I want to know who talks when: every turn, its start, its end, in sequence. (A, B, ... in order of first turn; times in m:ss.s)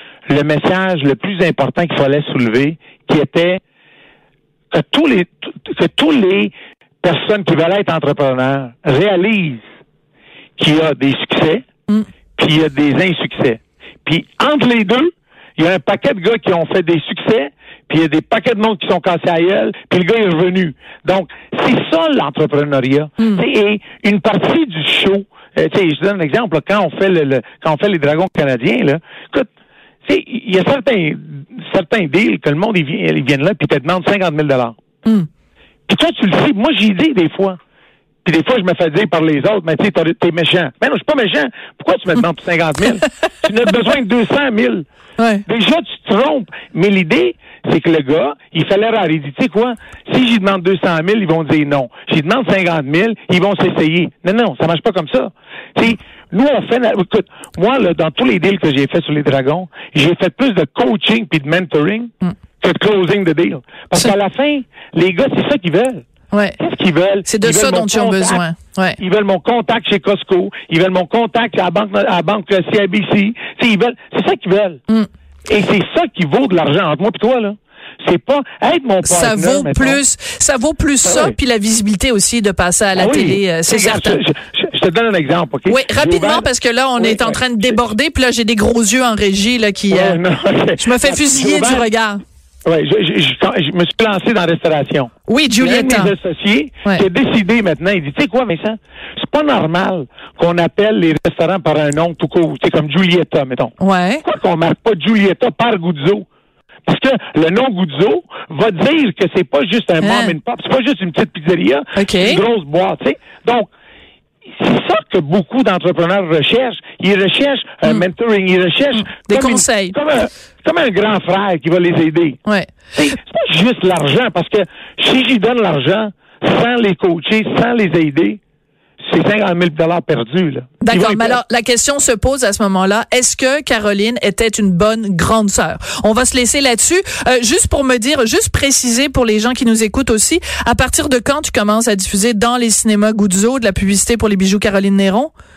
0:00.3-0:03.6 A
0:04.7-0:09.6 A
0:10.6-0:11.6 A
0:12.4-0:29.5 A
0:30.0-0:34.8 A
0:35.9-0:37.6 A
0:38.2-0:44.8 A
0:45.2-0:45.4 B
0:45.4-1:06.0 A
1:06.3-1:06.6 B
1:06.6-1:08.4 A
1:07.3-1:09.0 B
1:09.0-1:14.8 A
1:15.5-1:20.0 A
1:19.0-1:24.2 B
1:21.0-1:21.3 A
1:23.0-1:26.5 A
1:25.7-1:30.2 B
1:27.0-1:27.8 A
1:29.9-1:31.9 A
1:30.8-1:32.2 B
1:32.6-1:46.2 A
1:35.3-1:36.1 B
1:43.8-1:44.2 B
1:46.8-1:53.7 A
1:50.0-1:50.3 B
1:52.0-1:52.4 B
1:54.6-2:02.4 A
1:58.9-1:59.9 B
2:02.4-2:02.7 B
2:03.0-2:08.4 A
2:09.0-2:11.4 A
2:10.8-2:25.3 B